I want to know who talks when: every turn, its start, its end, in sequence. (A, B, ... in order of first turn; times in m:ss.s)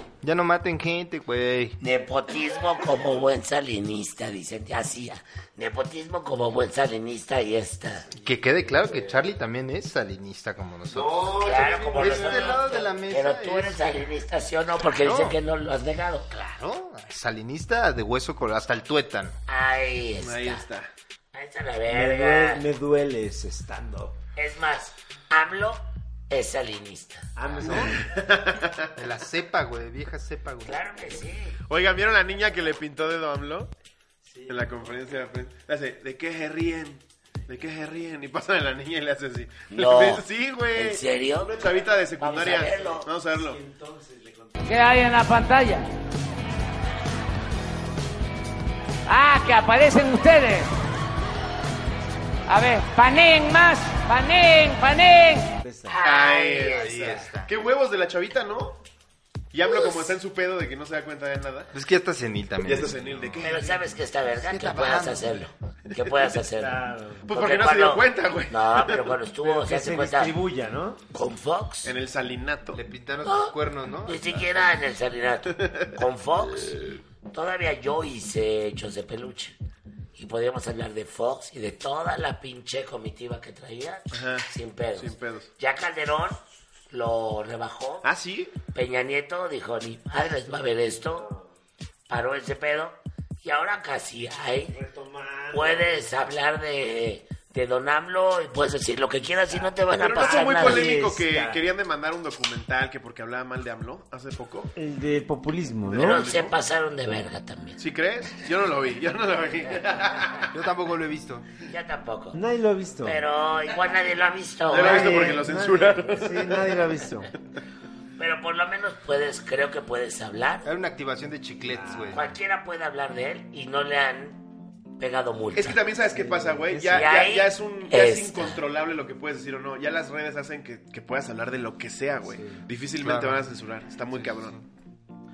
0:00.2-0:01.8 A
0:01.8-0:08.0 B
0:08.1-0:09.2 C
0:08.2-0:11.4 A
0:11.0-0:12.6 C
0:11.4-0:16.4 B
0:12.0-0:14.0 A
0:15.0-0:15.4 A
0:16.3-0:19.4 A
0:19.5-0:20.6 B
0:20.2-0:20.9 D
0:21.3-0:22.6 B
0:21.9-0:24.2 C
0:24.4-0:27.3 B
0:27.4-0:28.1 C
0:27.5-0:27.8 A
0:27.7-0:28.9 D
0:29.0-0:30.8 A
0:30.6-0:31.6 B
0:31.7-0:33.7 D
0:34.3-0:34.8 C
0:34.5-0:43.6 D
0:39.7-0:41.5 B
0:42.2-0:43.1 B
0:43.3-0:44.9 C
0:44.6-0:45.9 E
0:49.1-0:50.7 E
0:52.5-0:55.6 E
0:55.6-0:56.0 C
0:55.9-0:57.1 B
0:56.0-0:58.8 D
0:56.7-0:57.5 A
0:59.5-1:01.7 D
0:59.7-1:00.1 B
1:01.7-1:03.0 A
1:02.6-1:03.6 D
1:03.4-1:10.4 B
1:03.4-1:03.8 C
1:04.3-1:05.4 A
1:06.5-1:07.3 C
1:07.3-1:09.1 D
1:09.4-1:11.0 C
1:11.1-1:11.9 B
1:11.8-1:12.8 D
1:12.7-1:14.8 A
1:13.2-1:13.6 B
1:14.1-1:19.6 B
1:15.6-1:15.9 D
1:20.2-1:28.1 B
1:24.1-1:25.5 D
1:28.0-1:28.5 D
1:28.7-1:31.3 B
1:31.1-1:31.5 C
1:32.1-1:34.8 B
1:34.7-1:36.1 C
1:35.5-1:40.9 B
1:40.0-1:44.7 D
1:40.2-1:41.6 C
1:44.8-1:46.2 C
1:45.9-1:46.6 D
1:46.0-1:47.8 B
1:47.8-1:50.5 D
1:50.5-1:51.5 A
1:51.7-1:52.4 B
1:52.3-1:53.2 C
1:53.0-1:55.3 B
1:54.7-1:56.8 D
1:54.7-1:57.3 C
1:58.2-2:00.7 B
2:00.6-2:02.2 A
2:01.7-2:02.2 C
2:02.1-2:04.4 B
2:05.0-2:05.8 B
2:05.6-2:14.6 D
2:06.1-2:07.1 C
2:06.9-2:08.6 B
2:12.3-2:12.6 C
2:13.0-2:13.4 A